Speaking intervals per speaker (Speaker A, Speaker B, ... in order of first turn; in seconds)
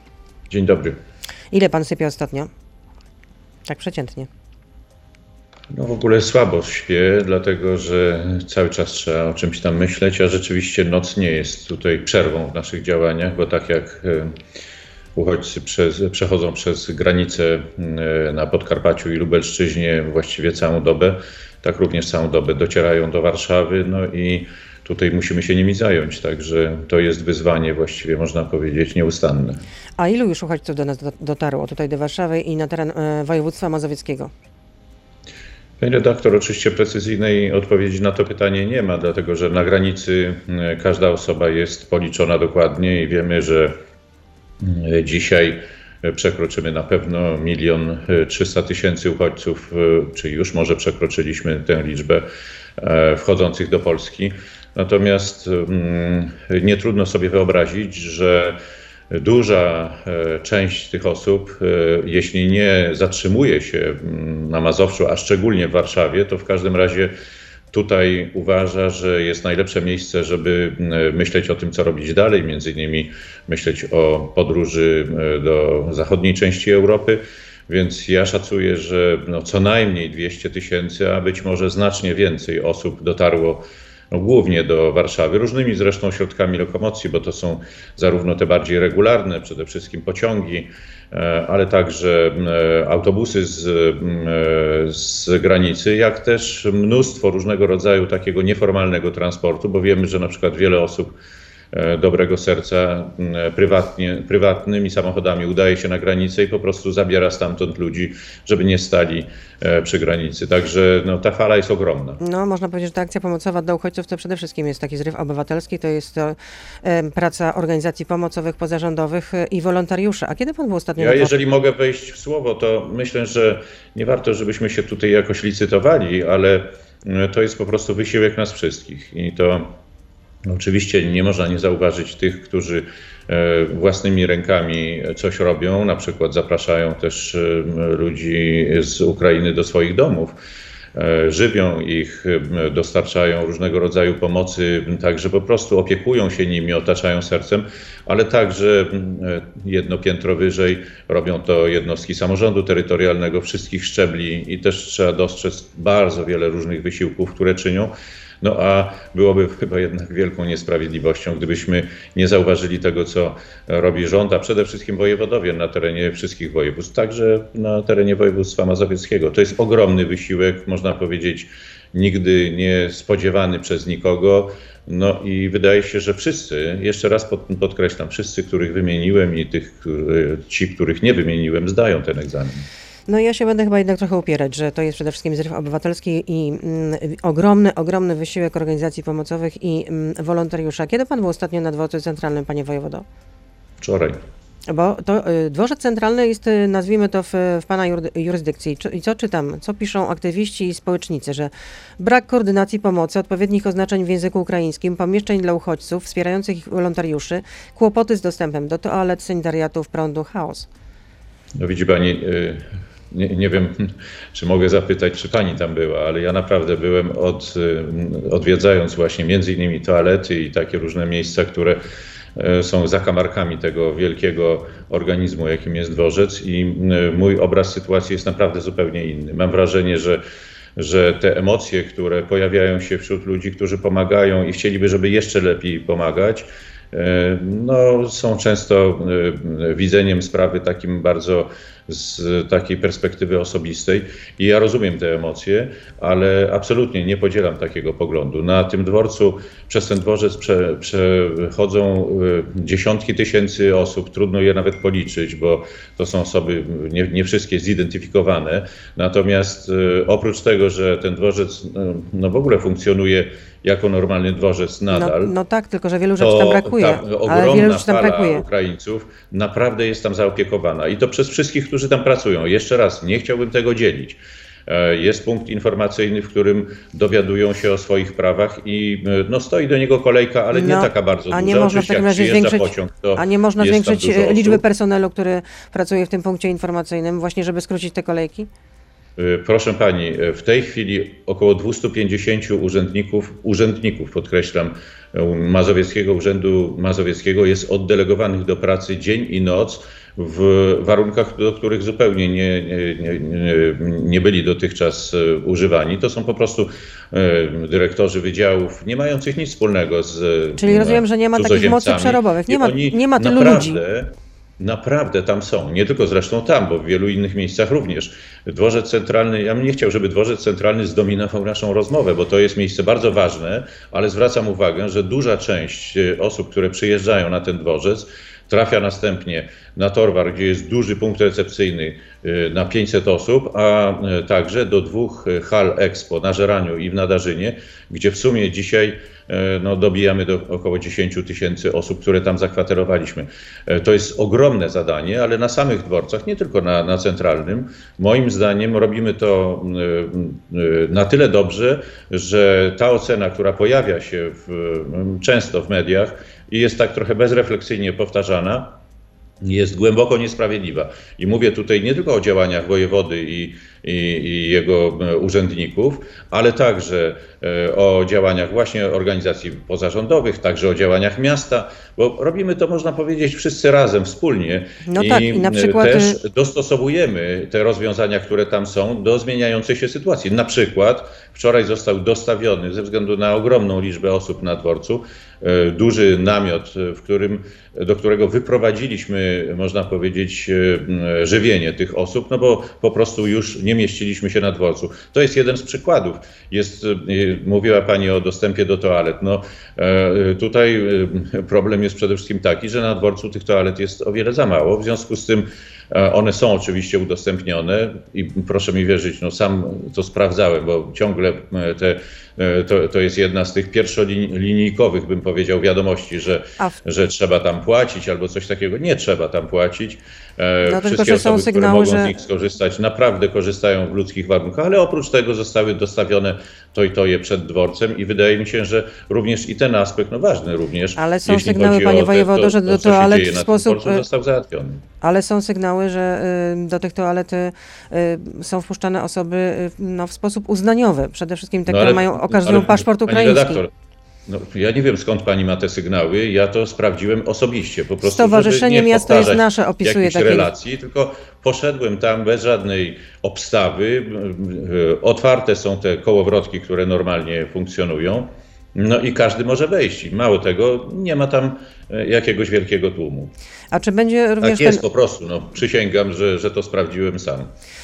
Speaker A: 0.5-1.0, 5.7-14.3, 15.2-29.6, 35.8-43.8, 44.6-52.2, 52.8-58.6, 59.1-67.1, 67.7-101.1, 101.7-112.2, 121.0-129.7, 130.4-140.3, 140.9-182.7, 193.8-194.2, 211.6-221.8, 222.3-230.2, 230.8-265.3, 266.2-284.6, 289.2-358.8, 359.4-434.8, 441.7-443.7, 444.2-463.3, 464.4-467.5
Speaker B: 1.5-2.5, 3.7-4.3, 30.0-34.3, 112.2-121.4, 183.1-193.0, 194.7-210.7, 264.9-268.4, 280.5-288.5, 310.6-313.8, 374.8-376.2, 420.6-422.2, 430.9-434.0, 435.0-443.6, 448.0-450.5, 463.7-464.8